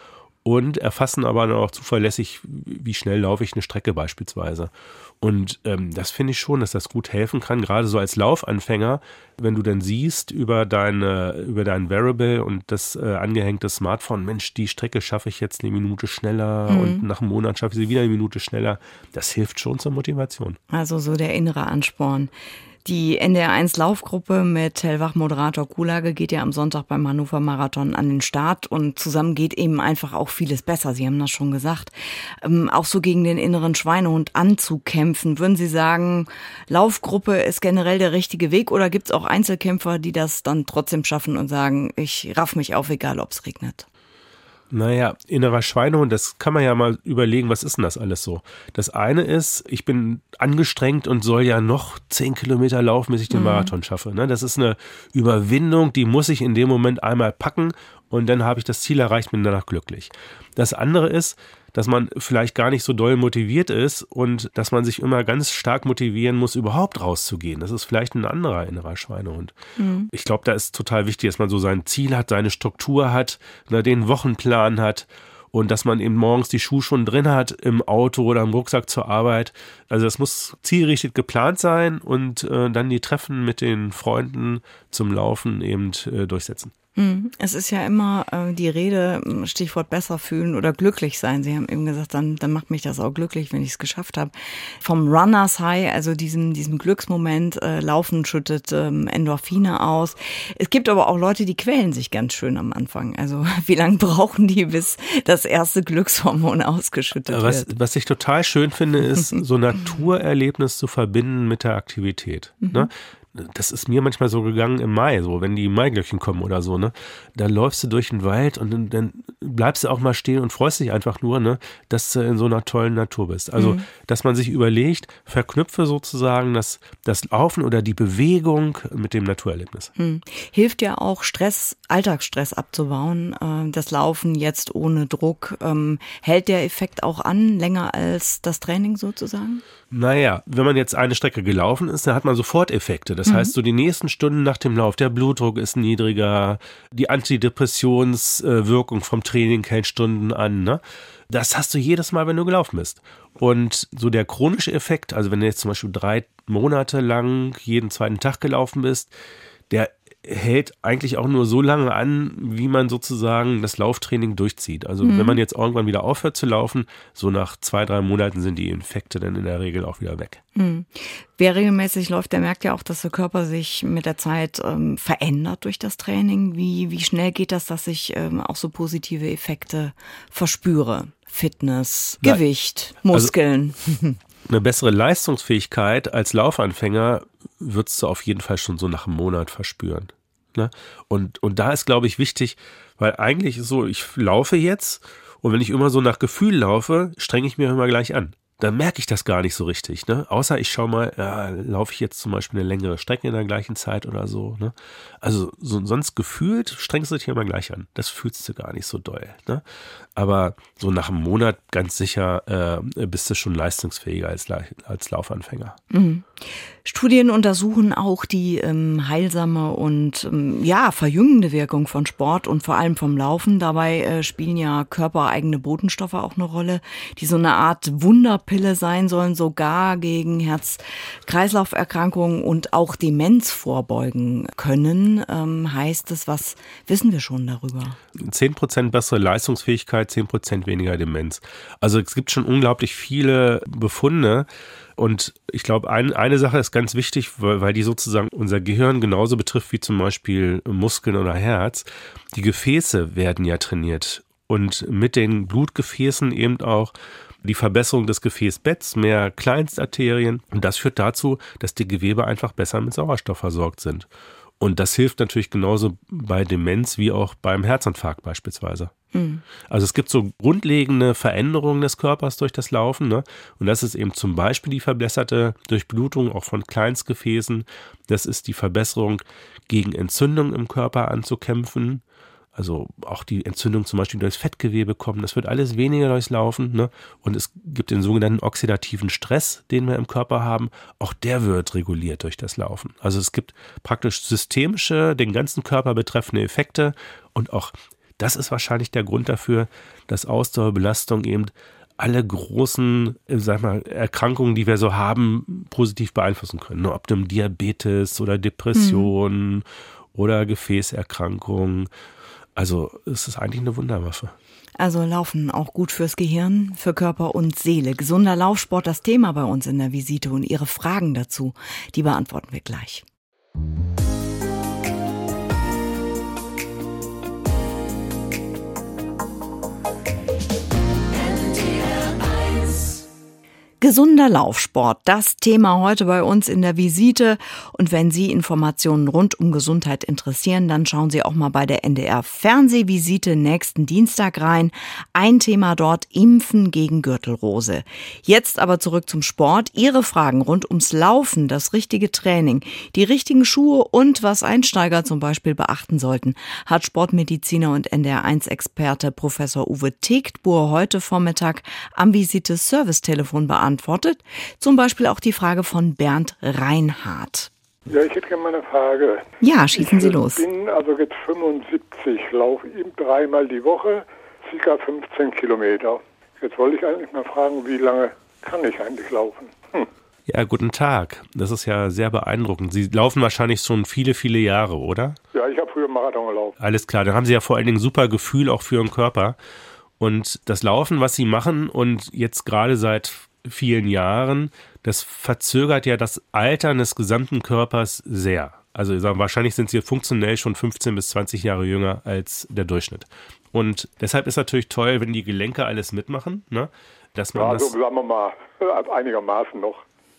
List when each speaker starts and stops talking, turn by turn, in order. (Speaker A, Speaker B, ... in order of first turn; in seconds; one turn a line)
Speaker A: 0.4-20.6
Speaker B: 16.7-17.0
Speaker B: 20.7-22.3
Speaker B: 22.8-43.9
Speaker A: 44.7-69.5
Speaker B: 53.3-53.7
Speaker B: 69.8-70.1
Speaker A: 70.1-86.7
Speaker B: 87.0-107.7
Speaker A: 107.3-129.9
Speaker B: 112.6-112.9
Speaker B: 123.6-123.8
Speaker B: 130.0-139.6
Speaker A: 139.9-159.1
Speaker B: 143.2-143.5
Speaker A: 159.7-170.4
Speaker B: 165.0-165.4
Speaker B: 170.6-184.2
Speaker A: 184.5-209.6
Speaker A: 210.2-215.8
Speaker B: 215.9-238.0
Speaker A: 238.2-256.9
Speaker A: 257.4-264.1
Speaker A: 264.6-268.9
Speaker B: 269.1-269.4
Speaker A: 269.7-282.0
Speaker A: 282.6-311.9
Speaker B: 308.7-309.1
Speaker A: 312.6-314.3
Speaker B: 314.8-323.0
Speaker B: 333.8-367.5
Speaker C: 367.9-369.2
Speaker B: 369.4-370.4
Speaker C: 369.7-379.9
Speaker A: 380.3-385.2
Speaker C: 385.3-386.6
Speaker A: 386.6-389.4
Speaker A: 390.0-407.7
Speaker C: 407.3-409.8